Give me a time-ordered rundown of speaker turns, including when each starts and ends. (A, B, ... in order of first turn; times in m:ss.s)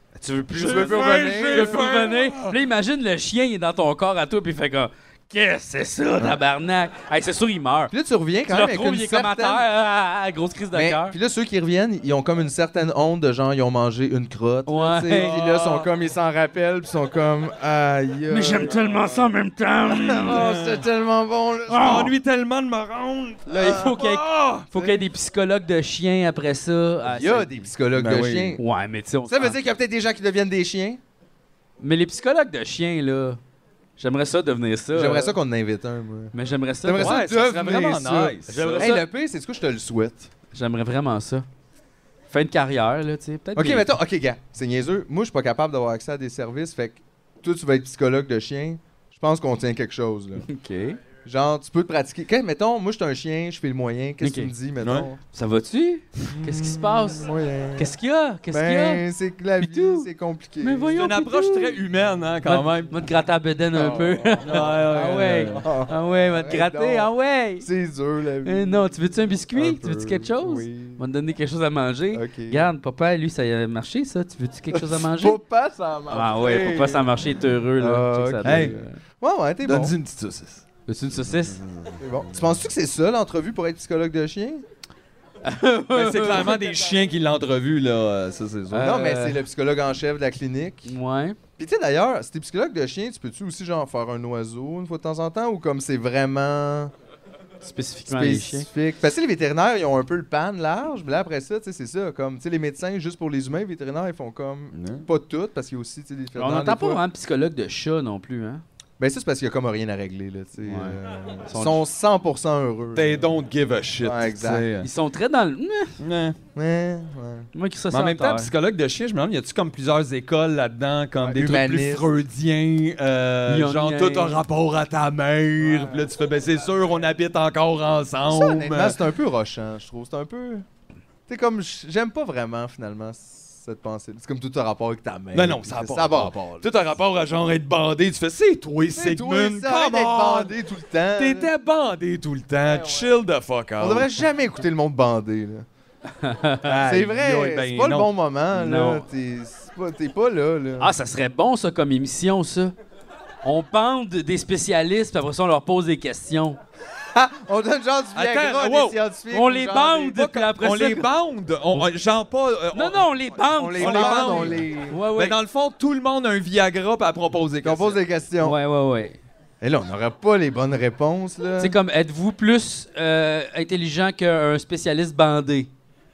0:00.2-0:07.9 A
0:00.5-0:01.9 B
0:00.5-0:02.6 C
0:07.9-0:09.6 B
0:08.5-0:11.2 A
0:10.7-0:18.7 B
0:14.6-0:15.3 A
0:15.1-0:15.9 C
0:18.3-0:20.4 A
0:18.7-0:19.3 C
0:19.9-0:22.1 B
0:20.3-0:20.8 C
0:21.7-0:22.1 A
0:21.7-0:24.7 C
0:23.5-0:27.7 A
0:23.5-0:24.0 B
0:24.7-0:25.0 B
0:27.0-0:28.6 B
0:28.0-0:28.6 C
0:28.6-0:29.6 A
0:29.3-0:31.0 B
0:31.8-0:33.4 A
0:34.0-0:35.4 A
0:34.9-0:40.3 B
0:36.3-0:37.2 A
0:37.0-0:38.9 C
0:38.5-0:39.0 A
0:40.5-0:41.5 A
0:42.3-0:43.9 A
0:43.5-0:50.5 B
0:50.4-0:51.0 A
0:51.2-0:55.2 B
0:54.2-0:54.5 A
0:54.8-0:55.1 C
0:55.3-0:59.0 A
0:56.3-0:57.9 B
0:58.5-1:00.9 B
0:59.6-1:00.1 A
1:00.6-1:01.8 A
1:00.9-1:03.1 C
1:02.4-1:07.7 A
1:03.7-1:08.8 B
1:04.4-1:05.6 C
1:08.4-1:15.4 A
1:09.5-1:11.0 B
1:12.1-1:12.7 B
1:14.7-1:17.1 B
1:16.1-1:19.0 A
1:17.8-1:19.9 B
1:18.4-1:18.7 C
1:19.6-1:20.6 C
1:20.8-1:21.6 A
1:21.3-1:22.6 C
1:22.0-1:24.6 B
1:25.4-1:26.6 A
1:25.9-1:28.9 C
1:28.7-1:29.4 A
1:28.8-1:30.9 B
1:30.8-1:31.4 A
1:31.6-1:36.9 B
1:37.6-1:38.7 A
1:38.0-1:47.0 B
1:44.7-1:45.0 C
1:46.3-1:48.6 A
1:49.0-1:53.4 B
1:50.6-1:51.8 A
1:52.9-1:54.9 C
1:54.0-1:54.7 B
1:54.8-1:56.0 A
1:56.0-1:56.4 C
1:56.5-1:57.5 B
1:57.5-1:58.5 A
1:57.9-2:09.0 C
2:01.2-2:02.1 B
2:03.5-2:04.4 A
2:08.3-2:10.6 B
2:11.3-2:16.7 B
2:15.3-2:20.5 C
2:18.9-2:21.5 B
2:21.2-2:24.1 C
2:23.8-2:25.6 B
2:26.2-2:26.7 A
2:26.6-2:28.1 C
2:26.8-2:30.9 B
2:28.5-2:29.0 A
2:30.8-2:32.7 A
2:33.4-2:36.6 A
2:37.1-2:40.2 B
2:38.1-2:39.0 C
2:39.3-2:41.1 A
2:40.1-2:43.1 C
2:42.7-2:45.4 A
2:43.5-2:45.0 B
2:43.8-2:48.0 C
2:47.6-2:48.6 B
2:48.4-2:49.2 A
2:49.6-2:51.7 B
2:51.6-2:55.7 A